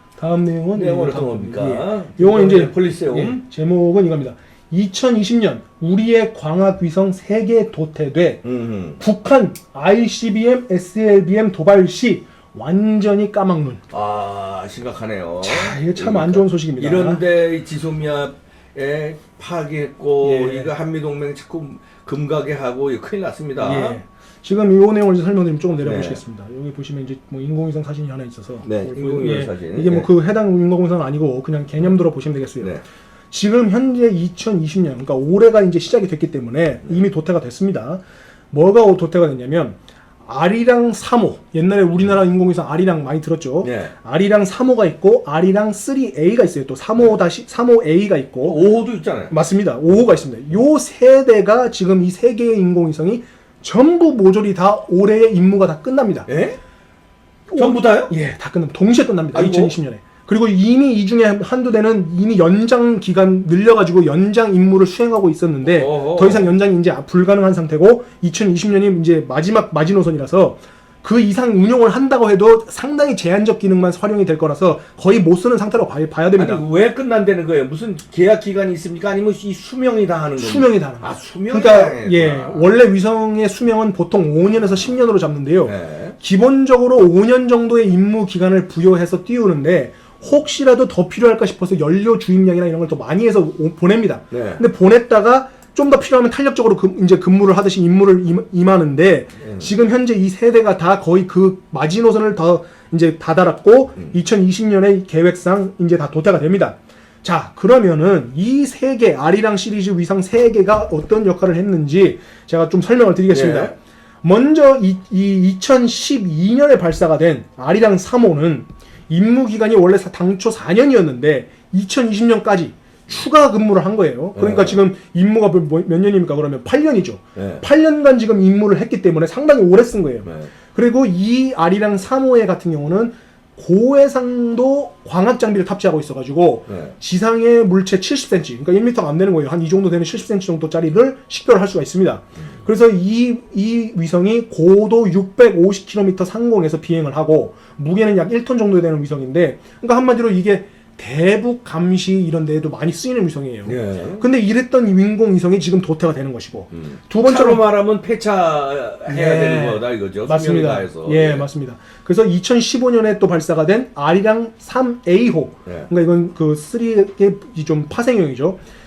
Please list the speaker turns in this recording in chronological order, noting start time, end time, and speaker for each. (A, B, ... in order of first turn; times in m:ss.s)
0:00.2-0:08.4 A
0:00.7-0:03.4 B
0:08.4-0:09.0 B
0:09.0-0:13.8 A
0:13.9-0:24.0 B
0:15.4-0:17.2 A
0:20.2-0:20.7 A
0:23.6-0:48.6 A
0:25.8-0:26.2 B
0:28.6-0:30.1 B
0:43.6-0:43.9 B
0:48.4-0:49.3 B
0:49.3-0:56.3 A
0:56.3-0:56.6 B
0:57.5-1:16.6 A
0:57.6-0:58.1 B
0:59.3-0:59.7 B
1:05.6-1:06.5 B
1:16.4-1:22.7 B
1:20.4-2:37.6 A
1:25.6-1:26.2 B
1:34.3-1:34.6 B
1:39.4-1:39.7 B
1:53.3-1:53.7 B
2:04.4-2:04.8 B
2:07.4-2:07.6 B
2:10.2-2:10.5 B
2:16.7-2:16.9 B
2:33.6-2:34.2 B
2:36.7-2:41.4 B
2:39.1-2:48.6 A